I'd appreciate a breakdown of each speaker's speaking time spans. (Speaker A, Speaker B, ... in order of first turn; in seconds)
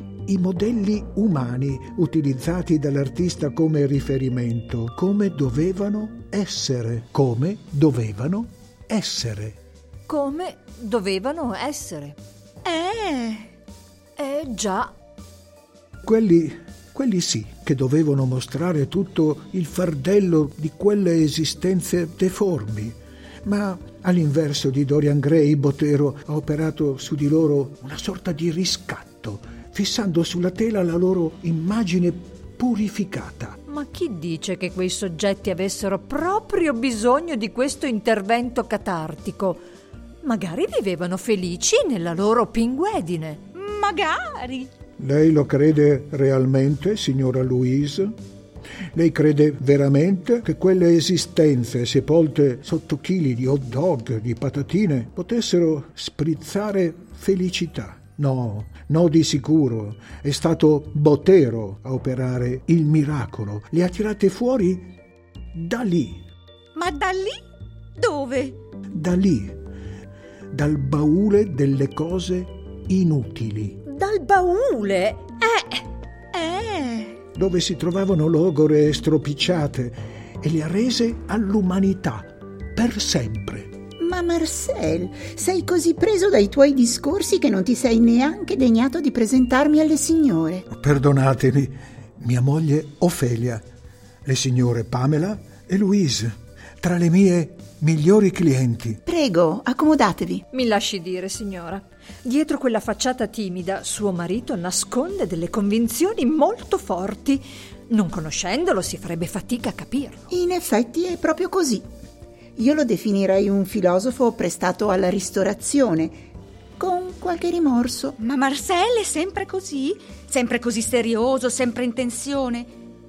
Speaker A: 0.3-9.6, 16.0-33.6, 45.0-48.1, 48.9-64.9, 65.5-66.2, 68.9-69.6, 70.5-73.8, 77.3-83.7, 90.7-93.6, 94.2-99.0
Speaker B: 10.1-12.2, 14.2-14.9, 33.7-39.6, 40.2-43.4, 73.9-75.8, 100.5-110.2
Speaker C: 12.7-13.5, 43.5-44.7, 66.8-67.4, 68.0-68.6, 76.3-77.2, 118.2-122.7
Speaker D: 84.0-90.7, 99.1-100.5, 110.3-111.9, 112.6-116.2, 116.8-118.2